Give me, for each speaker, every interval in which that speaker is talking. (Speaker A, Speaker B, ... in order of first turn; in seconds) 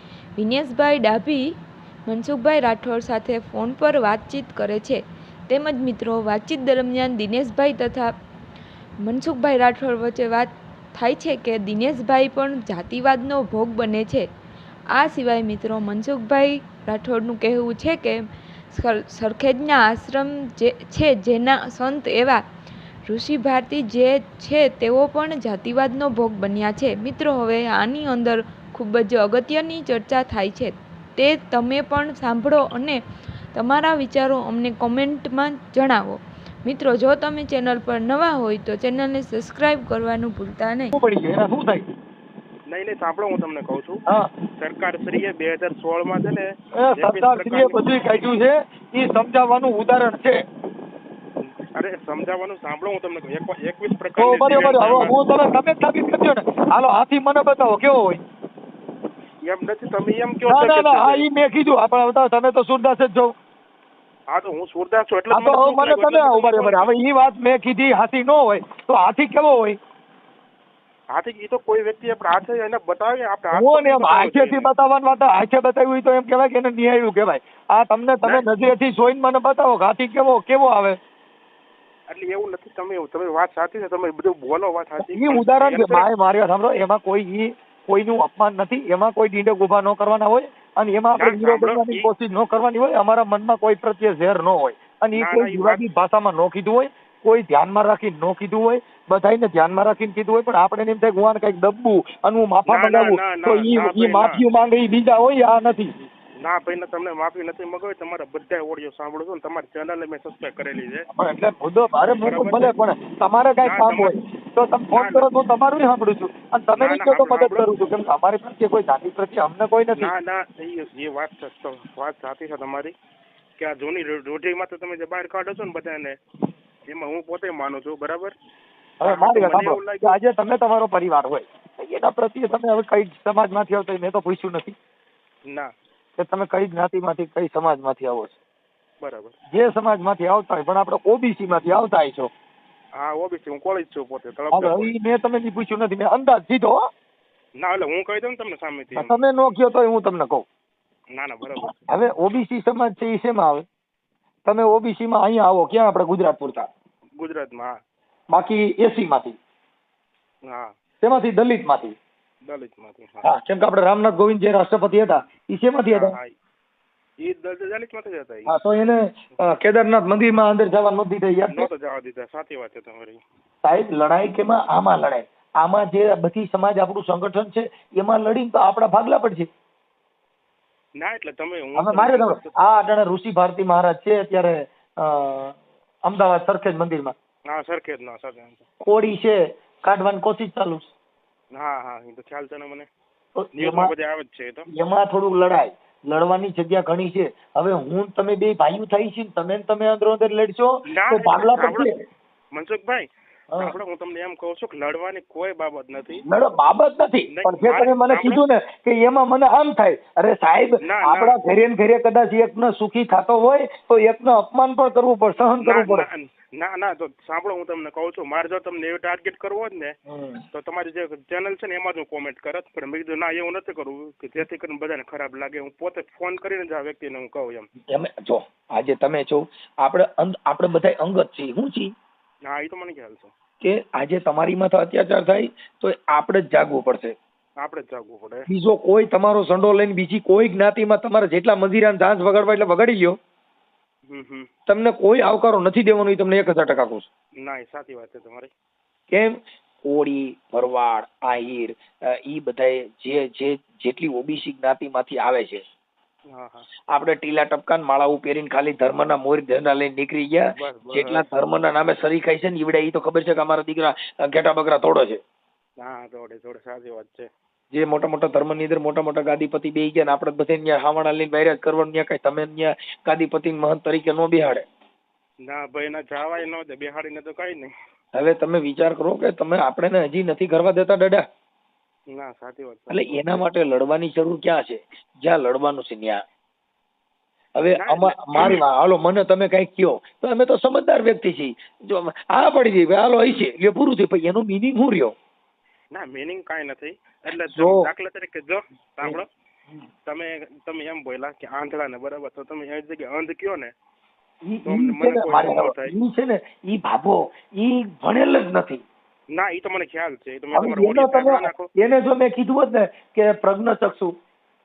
Speaker A: 0.4-1.4, 2.1-8.1, 9.0-14.3, 14.9-18.2, 18.7-22.4, 23.1-33.0, 33.5-41.0
Speaker B: 40.9-41.9, 46.8-50.4, 54.2-58.2, 60.5-63.3, 65.3-69.8, 73.5-81.0, 85.0-105.9, 111.1-120.1, 129.0-134.8, 136.2-138.4, 139.5-142.3, 144.5-146.8, 148.9-150.4, 151.6-153.7, 154.4-156.7, 158.3-159.4, 161.0-161.9, 163.2-166.2, 168.5-171.7, 173.6-179.5, 181.8-187.2, 188.8-190.9, 193.4-193.9, 194.7-201.9, 206.2-216.1, 220.1-220.4, 227.9-231.9, 233.6-237.2, 238.5-243.2, 244.7-247.1, 249.1-255.6, 256.9-265.2, 267.7-274.6, 278.1-281.2, 282.9-286.2, 287.6-295.1, 297.6-297.9, 304.5-308.8, 310.5-314.1
Speaker C: 42.7-44.0, 44.6-47.9, 51.4-55.2, 59.5-61.2, 64.3-67.0, 71.1-74.7, 82.1-86.1, 91.2-92.1, 95.2-95.9, 102.7-104.4, 106.4-111.1, 112.2-112.8, 113.6-114.1, 115.0-115.3, 116.8-117.7, 120.0-123.0, 123.6-126.2, 126.9-128.3, 129.0-130.2, 139.0-139.4, 143.0-144.9, 147.6-149.2, 151.2-151.9, 157.2-157.7, 162.4-163.3, 165.9-166.3, 167.2-168.6, 171.5-173.2, 181.0-182.7, 187.5-188.7, 191.5-192.9, 193.6-194.7, 200.9-201.9, 202.5-206.2, 207.3-208.4, 210.8-211.4, 215.6-219.9, 220.5-227.7, 232.5-233.3, 237.6-238.5, 244.1-244.5, 247.4-248.5, 256.3-256.7, 260.6-261.3, 265.8-267.3, 275.5-277.7, 282.1-283.5, 287.7-288.6, 295.9-299.3, 300.1-303.7, 304.7-305.9, 309.3-311.7